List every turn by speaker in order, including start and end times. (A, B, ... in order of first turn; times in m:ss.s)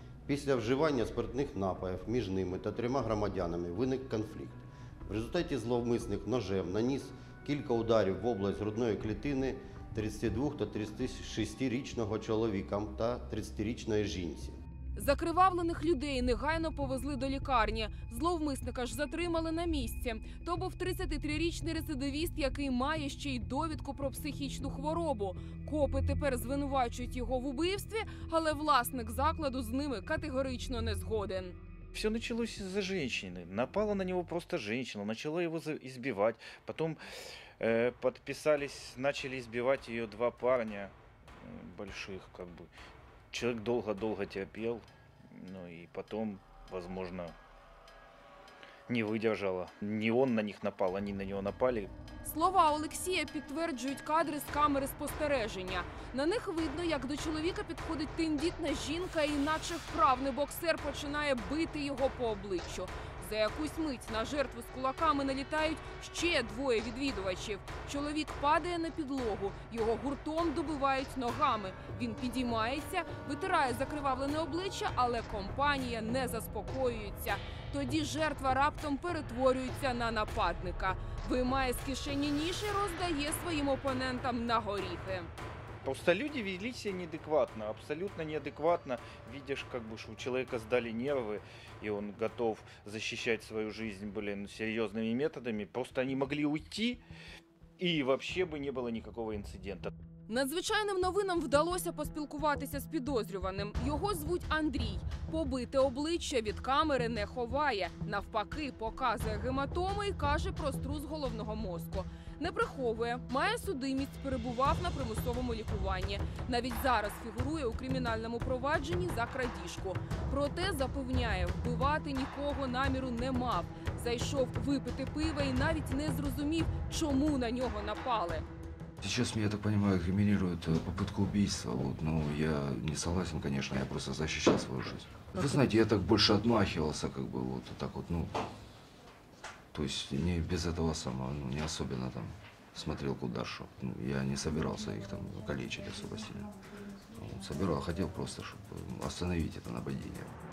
0:00.3-0:14.6 A
0:15.0-0:31.6 B
0:31.9-0:37.0 C
0:37.6-0:42.7 C
0:43.3-0:47.4 C
0:48.9-0:51.9 C
0:52.2-1:25.3 B
1:25.8-1:37.0 C
1:37.8-1:39.9 C
1:40.3-2:08.5 B
2:09.0-2:18.4 D
2:19.7-2:26.6 D
2:27.1-2:30.3 D